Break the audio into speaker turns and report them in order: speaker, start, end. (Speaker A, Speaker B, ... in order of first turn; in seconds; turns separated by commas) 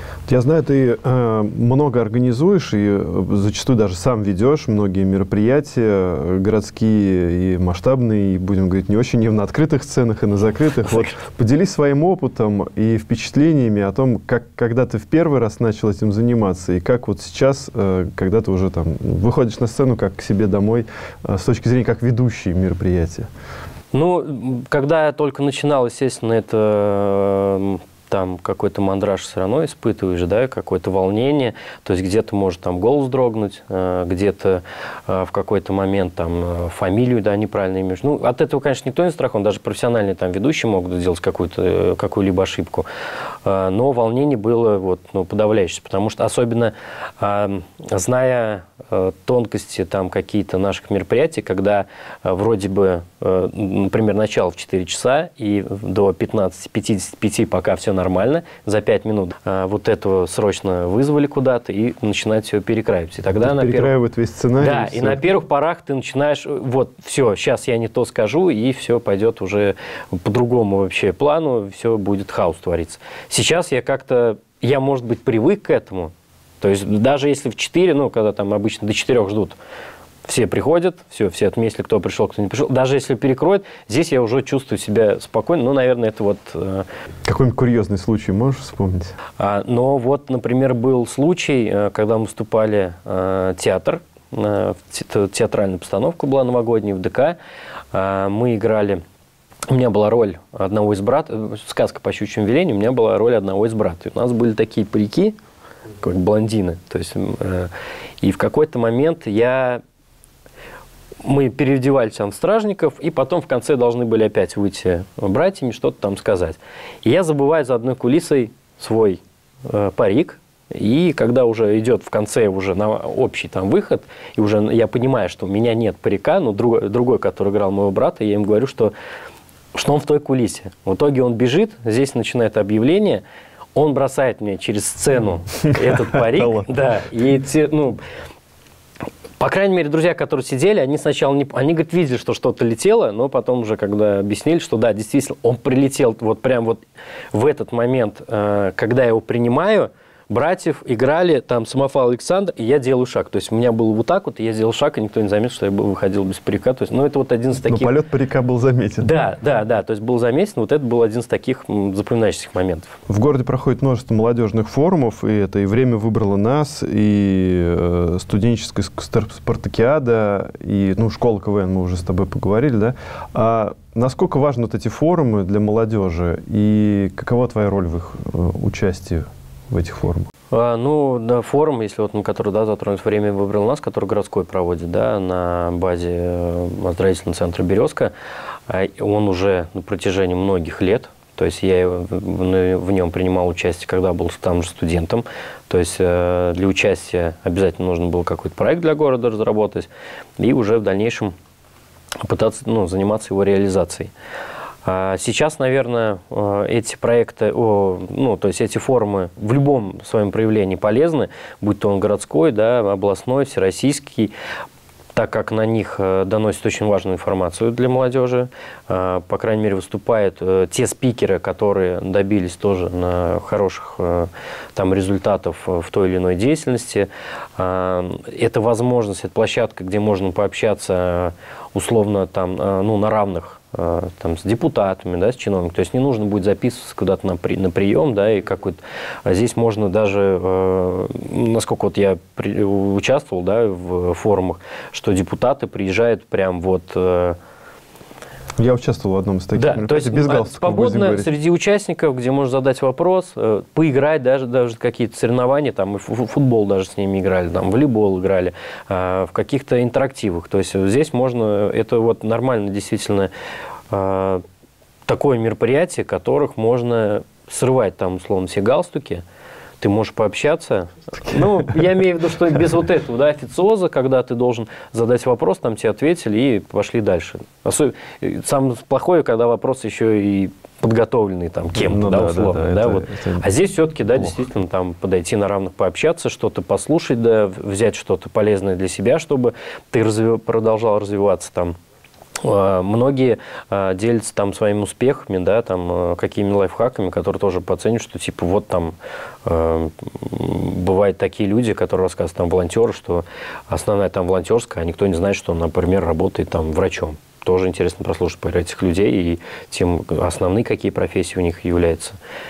Speaker A: 0.3-23.3, Speaker B: 23.9-42.9, Speaker B: 43.4-63.9, Speaker A: 63.4-65.2, Speaker B: 64.6-79.6, Speaker B: 80.2-86.9, Speaker A: 87.2-89.2, Speaker B: 89.4-97.4, Speaker B: 97.9-99.0, Speaker B: 99.7-105.4, Speaker B: 106.0-109.8, Speaker B: 111.2-128.9, Speaker B: 129.7-133.2, Speaker B: 133.8-138.0, Speaker A: 135.7-136.7, Speaker B: 139.4-146.8, Speaker B: 147.3-157.9, Speaker A: 157.7-159.1, Speaker B: 159.0-162.9, Speaker A: 163.1-180.3, Speaker B: 180.5-188.1, Speaker B: 188.7-201.3, Speaker B: 202.2-204.1, Speaker B: 204.8-214.3, Speaker B: 215.1-247.4, Speaker A: 248.6-251.3, Speaker B: 249.6-263.3, Speaker B: 263.9-264.4, Speaker B: 265.1-269.2, Speaker B: 269.8-291.8, Speaker A: 281.8-283.5, Speaker B: 292.4-312.2